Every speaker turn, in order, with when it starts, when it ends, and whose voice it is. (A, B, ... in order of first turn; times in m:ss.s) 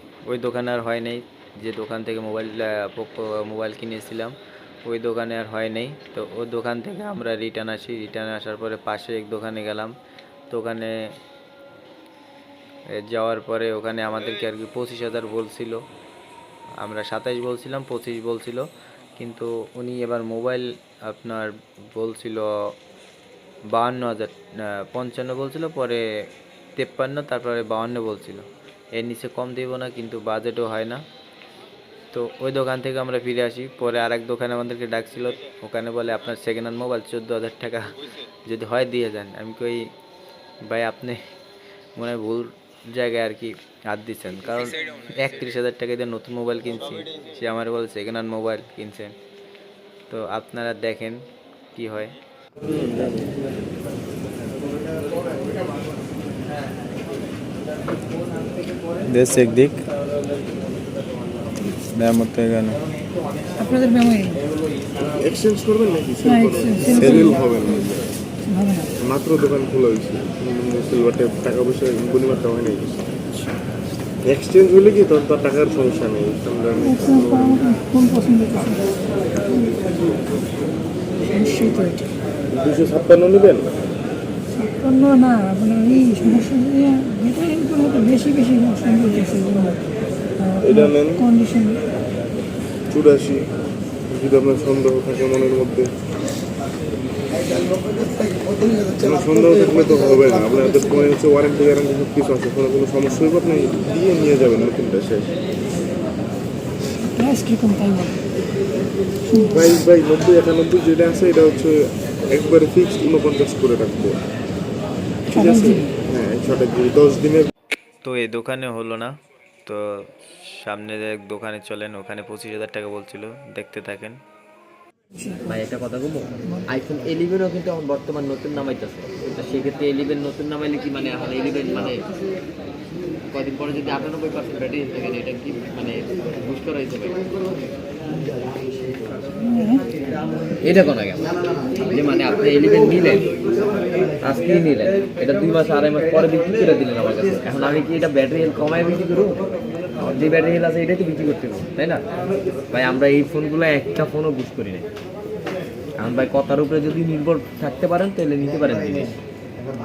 0:00.2-0:10.0 A
0:10.5-0:11.1 A
0:12.9-0:15.8 A
0:16.8-0:22.7 A
0:23.7-0:31.0 A
0:32.1-0:39.9 A
0:40.6-0:41.2 A
0:42.0-0:49.2 A
0:50.1-0:52.2 A
0:52.6-0:53.4 B
0:59.0-0:59.9 A
1:01.8-1:02.8 A
1:03.6-1:04.4 C
1:05.0-1:08.1 D
1:06.2-1:07.9 C
1:08.4-1:08.9 C
1:09.0-1:13.3 D
1:14.2-1:17.7 D
1:16.8-1:18.8 C
1:19.6-1:20.3 D
1:21.2-1:22.1 C
1:22.5-1:23.7 D
1:24.5-1:29.9 C
1:30.4-1:31.8 C
1:30.6-1:31.3 D
1:32.9-1:33.5 D
1:34.1-1:35.9 D
1:38.9-1:45.4 D
1:47.0-1:48.2 C
1:49.3-1:49.6 C
1:49.4-1:54.2 D
1:55.3-1:57.5 D
1:55.3-1:55.9 C
1:58.0-2:04.2 A
2:05.2-2:05.5 C
2:05.4-2:12.1 B
2:13.3-2:17.3 B
2:19.4-2:20.0 C
2:20.4-2:32.1 B
2:32.7-2:34.9 B
2:36.0-2:39.2 B